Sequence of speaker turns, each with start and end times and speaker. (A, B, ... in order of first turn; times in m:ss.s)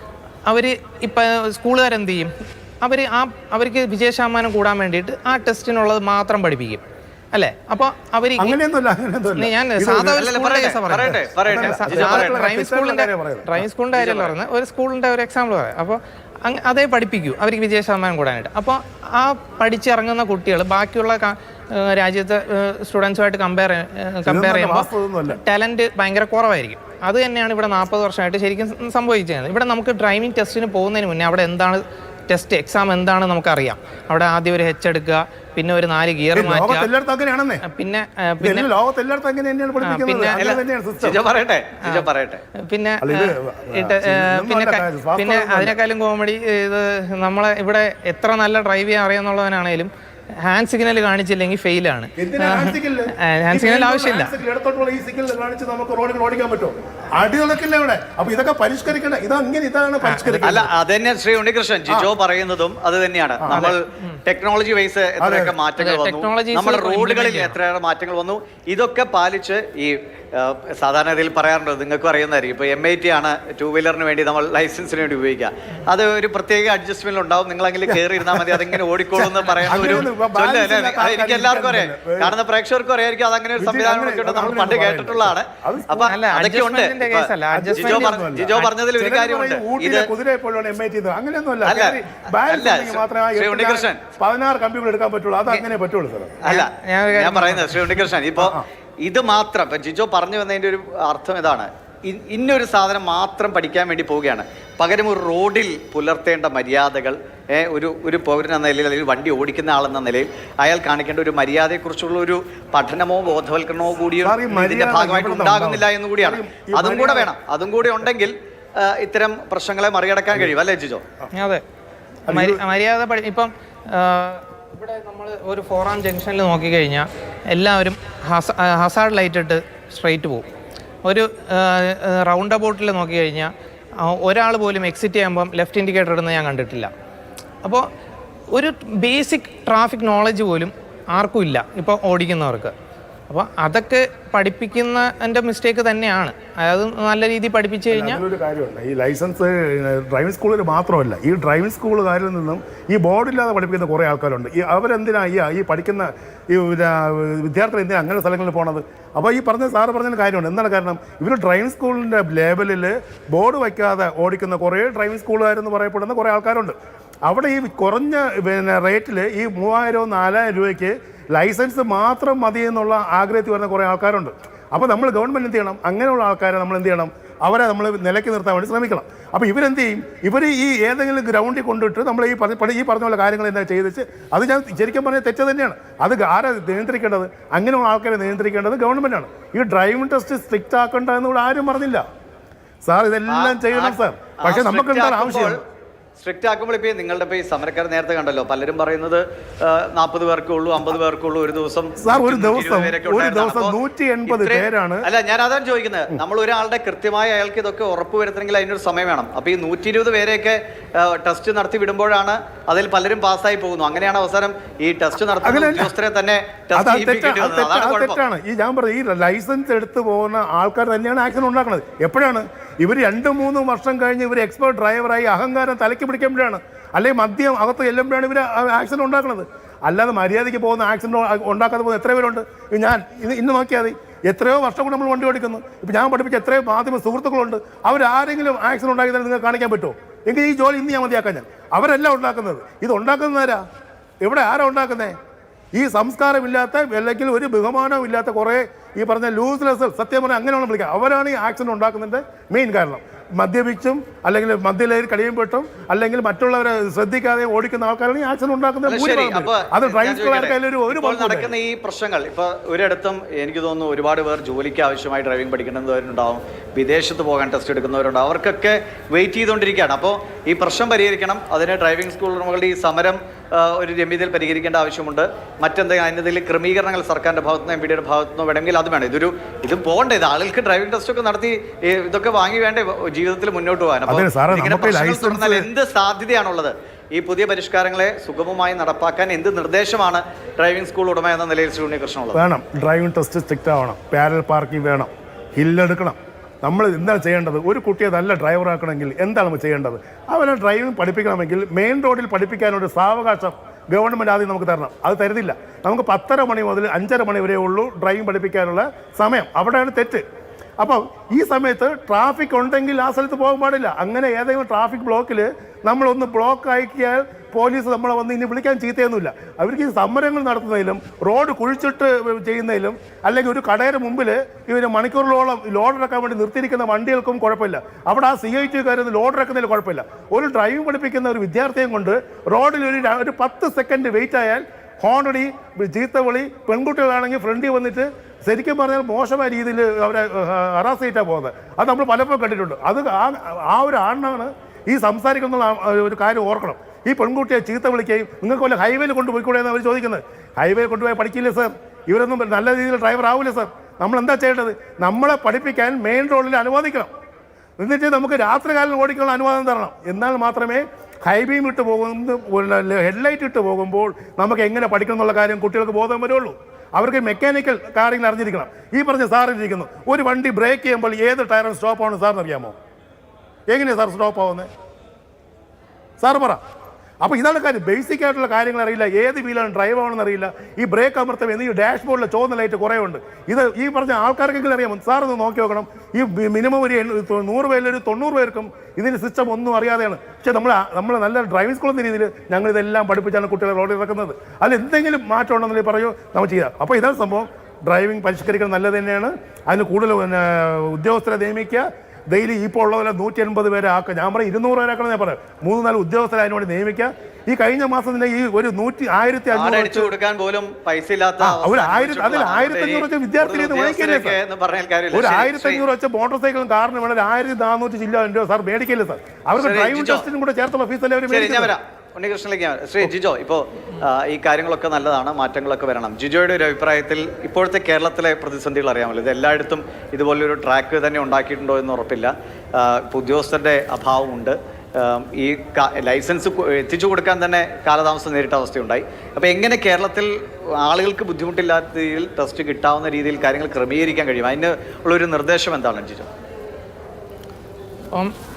0:00.5-0:08.6 A
0:08.4-0:10.3 B
0:09.4-0:36.9 A
0:10.2-0:12.3 C
0:11.4-0:13.7 B
0:13.9-0:14.3 C
0:24.3-0:25.4 B
0:36.4-0:37.6 B
0:37.6-0:38.7 A
0:38.4-0:41.2 B
0:39.8-0:40.4 A
0:40.4-0:42.4 C
0:42.6-0:54.4 A
0:43.0-0:45.8 B
0:52.2-1:00.7 B
1:00.0-1:00.4 A
1:00.4-1:30.1 C
1:03.4-1:03.7 B
1:03.5-1:04.2 A
1:05.2-1:05.6 B
1:05.8-1:07.6 A
1:17.9-1:22.4 B
1:23.6-1:26.1 B
1:26.0-1:28.7 A
1:27.5-1:36.4 B
1:31.6-1:34.0 C
1:36.4-2:01.0 C
1:36.4-1:38.0 A
1:38.4-1:38.6 B
1:54.2-1:57.3 B
2:01.4-2:01.6 A
2:02.3-2:02.6 B
2:02.3-2:10.5 A
2:11.0-2:16.9 A
2:18.5-2:22.7 A
2:23.3-2:28.2 A
2:27.9-3:12.1 B
3:12.8-3:15.6 B
3:13.3-3:15.6 C
3:16.2-3:23.8 C
3:22.0-3:25.1 B
3:24.3-3:38.2 C
3:35.4-3:35.9 B
3:36.8-4:03.6 B
4:04.2-4:05.2 B
4:05.7-4:21.6 B
4:18.9-4:52.4 C
4:44.1-4:45.7 B
4:52.3-5:10.2 B
5:10.8-5:57.1 B
5:57.8-6:12.8 B
6:13.7-6:14.7 B
6:16.2-6:16.6 B
6:17.2-6:50.1 B
6:49.5-6:55.8 C
6:51.4-6:54.4 B
6:55.1-7:01.8 B
6:59.6-7:00.3 C
7:01.3-7:26.3 C